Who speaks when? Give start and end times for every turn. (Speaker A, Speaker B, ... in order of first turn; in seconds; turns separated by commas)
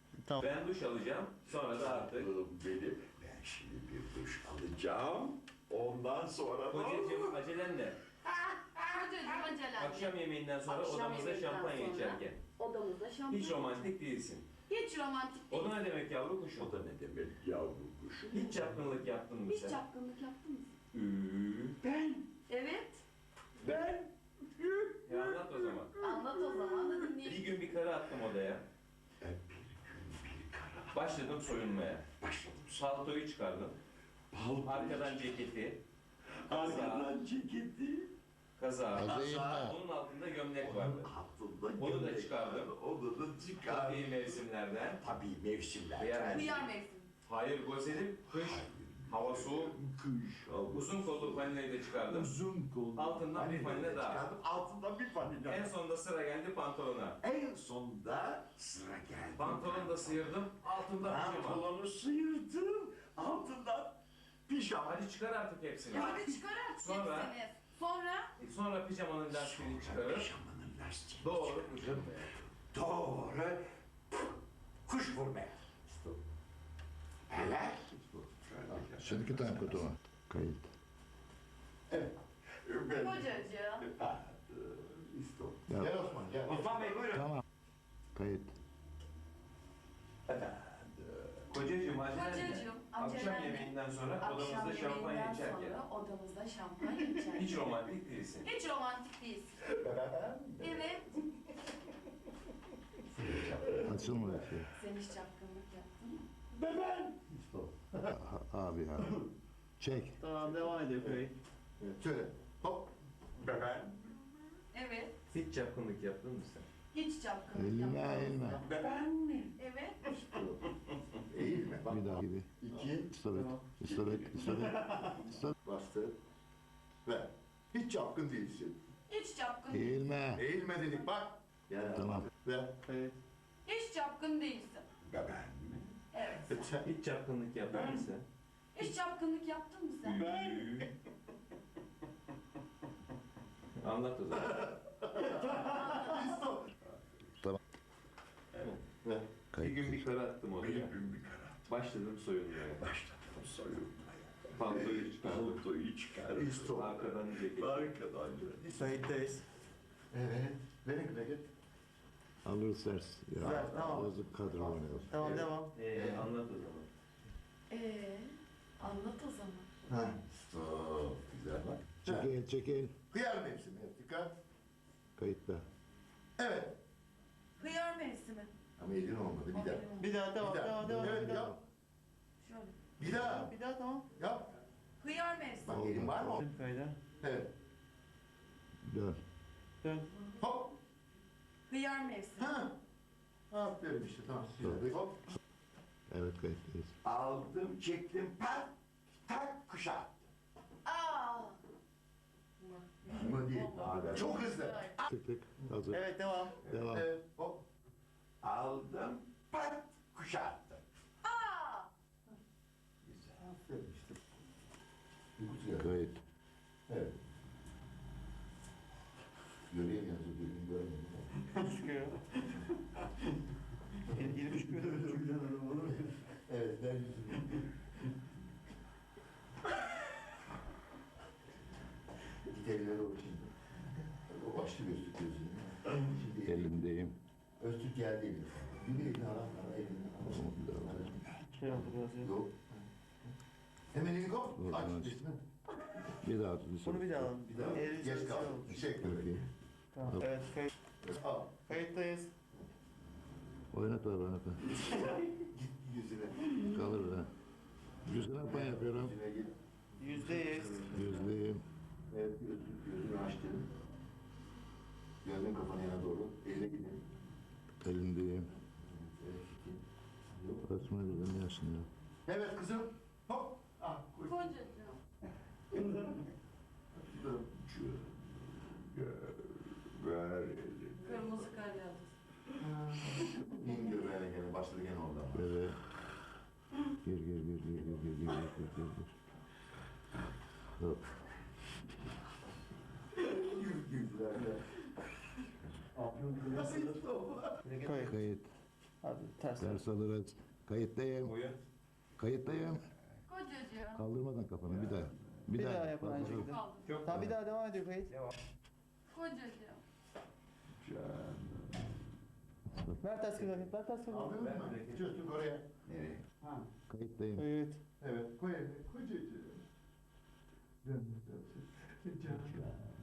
Speaker A: 0.4-2.3, Speaker B: 1.6-7.4, Speaker A: 6.7-8.0, Speaker B: 8.5-9.5, Speaker C: 8.9-13.8, Speaker A: 9.8-12.4, Speaker A: 13.3-14.5, Speaker C: 14.7-15.8, Speaker A: 15.5-16.8, Speaker B: 16.5-18.9, Speaker A: 18.3-19.8, Speaker C: 19.4-20.7, Speaker A: 20.9-21.8, Speaker B: 21.8-22.3, Speaker C: 22.5-23.0, Speaker B: 23.6-27.2, Speaker A: 25.1-25.9, Speaker C: 26.0-27.7, Speaker A: 27.2-28.7, Speaker B: 29.2-33.0, Speaker A: 30.9-32.1, Speaker A: 32.7-33.8, Speaker B: 34.3-35.5, Speaker A: 34.6-35.8, Speaker B: 36.3-38.1, Speaker A: 36.5-37.1, Speaker A: 38.6-41.1, Speaker D: 38.9-39.8, Speaker B: 39.0-39.8, Speaker B: 40.6-44.5, Speaker A: 41.8-42.7, Speaker A: 43.6-45.0, Speaker B: 45.0-46.7, Speaker A: 46.0-46.7, Speaker C: 46.2-47.1, Speaker A: 47.2-49.8, Speaker B: 48.1-55.8, Speaker A: 50.7-52.3, Speaker A: 52.9-54.3, Speaker A: 55.5-57.2, Speaker B: 57.2-65.1, Speaker A: 59.4-61.7, Speaker A: 64.7-67.4, Speaker C: 65.9-68.3, Speaker B: 65.9-66.4, Speaker A: 68.4-70.3, Speaker B: 69.3-73.6, Speaker A: 71.2-72.2, Speaker B: 74.9-76.2, Speaker B: 77.3-79.9, Speaker D: 79.0-80.7, Speaker E: 81.9-82.1, Speaker B: 82.7-85.7, Speaker C: 82.9-83.9, Speaker E: 85.7-86.7, Speaker A: 86.5-87.2, Speaker B: 86.5-87.3, Speaker D: 88.1-88.5, Speaker B: 90.3-91.6, Speaker A: 91.5-95.8, Speaker C: 92.1-97.8, Speaker A: 97.1-98.5, Speaker C: 98.4-99.7, Speaker E: 99.7-100.8, Speaker C: 100.6-101.2, Speaker E: 103.2-104.6, Speaker D: 103.7-104.7, Speaker C: 104.7-106.2, Speaker E: 106.5-108.0, Speaker D: 108.1-109.2, Speaker D: 109.8-110.2, Speaker F: 110.2-111.3, Speaker E: 111.8-112.9, Speaker B: 113.4-114.1, Speaker C: 114.7-115.3, Speaker A: 115.3-116.7, Speaker C: 116.9-118.6, Speaker D: 117.5-118.7, Speaker B: 118.7-119.5, Speaker C: 119.4-120.1, Speaker E: 120.1-120.6, Speaker E: 121.3-123.0, Speaker D: 121.9-125.5, Speaker B: 122.7-123.1, Speaker F: 123.3-123.6, Speaker B: 123.8-125.1, Speaker E: 125.6-126.2, Speaker E: 127.0-128.8, Speaker C: 129.1-130.1, Speaker D: 129.7-130.4, Speaker E: 130.3-132.8, Speaker D: 131.9-132.3, Speaker F: 132.8-133.2, Speaker C: 133.7-134.9, Speaker B: 135.0-135.9, Speaker C: 136.1-136.7, Speaker E: 136.5-136.8, Speaker A: 136.6-138.3, Speaker C: 138.7-140.6, Speaker A: 140.0-140.9, Speaker A: 143.8-145.4, Speaker E: 145.1-146.7, Speaker C: 145.6-146.4, Speaker B: 146.9-147.4, Speaker E: 149.0-149.3, Speaker D: 149.5-150.0, Speaker A: 149.5-151.0, Speaker B: 150.6-151.7, Speaker A: 151.7-152.9, Speaker B: 152.7-156.8, Speaker A: 154.5-155.6, Speaker E: 156.2-157.0, Speaker A: 156.7-158.0, Speaker B: 157.4-158.7, Speaker E: 158.6-159.0, Speaker F: 158.8-159.4, Speaker E: 160.1-161.5, Speaker D: 162.4-165.4, Speaker F: 163.4-164.1, Speaker E: 163.4-164.0, Speaker E: 164.5-166.3, Speaker F: 165.1-165.7, Speaker A: 165.7-166.9, Speaker C: 167.7-169.7, Speaker E: 169.9-172.3, Speaker D: 172.0-173.0, Speaker E: 173.1-174.3, Speaker D: 175.2-175.7, Speaker E: 176.4-176.8, Speaker C: 177.6-178.5, Speaker E: 178.8-181.5, Speaker C: 179.5-180.1, Speaker F: 180.0-181.5, Speaker D: 180.8-181.6, Speaker C: 182.4-182.8, Speaker E: 183.0-183.5, Speaker F: 183.3-184.1, Speaker E: 184.2-184.5, Speaker C: 185.0-185.8, Speaker E: 185.7-186.5, Speaker D: 185.7-186.4, Speaker F: 186.3-187.0, Speaker E: 187.2-187.5, Speaker D: 188.8-189.2, Speaker E: 190.4-190.8, Speaker C: 191.7-192.5, Speaker E: 192.4-192.8, Speaker E: 193.5-195.2, Speaker D: 194.6-194.9, Speaker D: 196.1-196.9, Speaker B: 197.0-198.7, Speaker B: 199.3-200.2, Speaker C: 200.8-201.6, Speaker C: 202.6-204.9, Speaker E: 203.1-205.0, Speaker B: 203.8-204.3, Speaker D: 205.0-206.1, Speaker F: 205.9-206.6, Speaker D: 206.6-207.1, Speaker E: 206.7-207.7, Speaker B: 208.4-210.8, Speaker C: 211.2-211.9, Speaker B: 213.1-213.4, Speaker E: 213.3-214.2, Speaker E: 215.4-215.9, Speaker D: 215.8-216.2, Speaker E: 216.9-217.1, Speaker E: 219.7-221.3, Speaker F: 221.5-222.2, Speaker F: 224.1-225.8, Speaker E: 224.6-227.6, Speaker E: 232.5-233.5, Speaker E: 234.1-236.8, Speaker D: 236.4-237.2, Speaker E: 237.6-242.8, Speaker D: 240.2-241.0, Speaker F: 241.4-242.3, Speaker E: 243.9-245.4, Speaker D: 244.6-245.2, Speaker D: 246.2-247.4, Speaker F: 246.8-248.8, Speaker E: 247.5-249.4, Speaker D: 248.8-249.4, Speaker F: 249.9-250.7, Speaker E: 251.0-251.6, Speaker F: 251.7-252.3, Speaker D: 253.7-254.6, Speaker E: 254.8-256.6, Speaker D: 256.6-257.3, Speaker D: 258.1-259.2, Speaker E: 258.4-261.4, Speaker F: 260.0-260.9, Speaker D: 260.9-261.6, Speaker E: 262.1-263.7, Speaker E: 265.2-267.0, Speaker D: 267.8-268.5, Speaker E: 268.8-270.6, Speaker D: 270.6-271.9, Speaker E: 272.3-274.6, Speaker C: 274.2-275.0, Speaker E: 275.7-276.1, Speaker E: 276.9-277.6, Speaker B: 277.5-281.5, Speaker C: 281.0-282.1, Speaker E: 282.6-285.5, Speaker D: 285.3-285.8, Speaker D: 287.0-289.1, Speaker D: 290.8-291.0, Speaker E: 293.1-294.6, Speaker E: 296.0-297.8, Speaker A: 297.6-297.9, Speaker F: 297.8-298.1, Speaker D: 297.9-298.5, Speaker F: 299.0-299.8, Speaker D: 299.6-301.4, Speaker A: 301.2-301.6, Speaker D: 302.2-302.9, Speaker C: 303.3-304.0, Speaker D: 303.9-307.4, Speaker F: 305.6-308.1, Speaker C: 306.4-307.0, Speaker A: 306.9-307.2, Speaker C: 309.1-309.8, Speaker B: 310.8-311.9, Speaker D: 312.7-313.0, Speaker F: 313.0-314.3, Speaker E: 314.1-315.7, Speaker A: 314.3-315.0, Speaker B: 315.9-316.2, Speaker D: 316.9-317.5, Speaker F: 317.4-317.8, Speaker E: 318.0-319.6, Speaker E: 320.8-322.6, Speaker B: 322.4-322.7